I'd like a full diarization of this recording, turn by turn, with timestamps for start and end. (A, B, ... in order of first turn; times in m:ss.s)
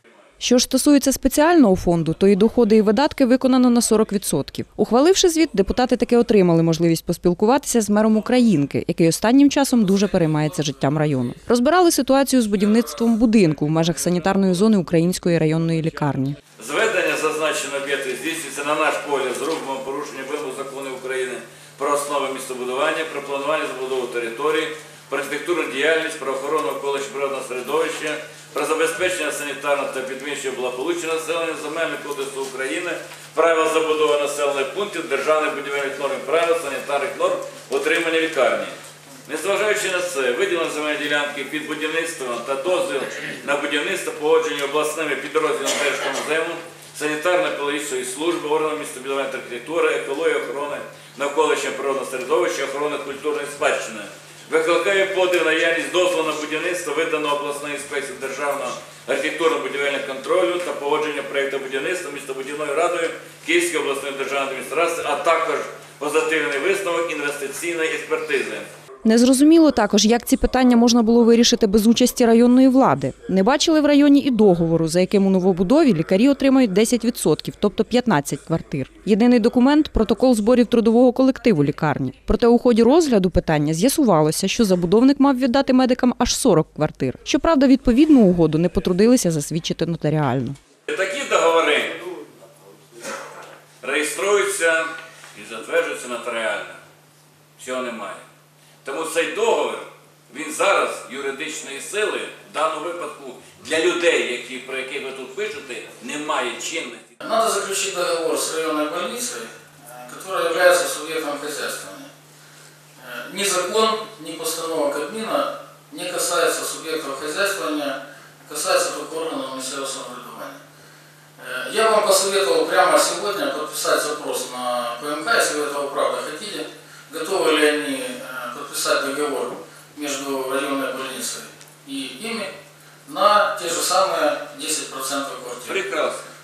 0:00.4-0:16.4 A
0:16.6-1:08.7 B
1:09.0-1:30.6 A
1:30.9-1:32.0 B
1:33.8-1:36.8 B
1:37.6-1:38.2 B
1:38.8-1:47.0 B
1:47.2-1:52.1 C
1:53.0-2:00.6 C
2:01.4-2:12.5 C
2:13.0-2:15.8 C
2:15.7-2:16.2 B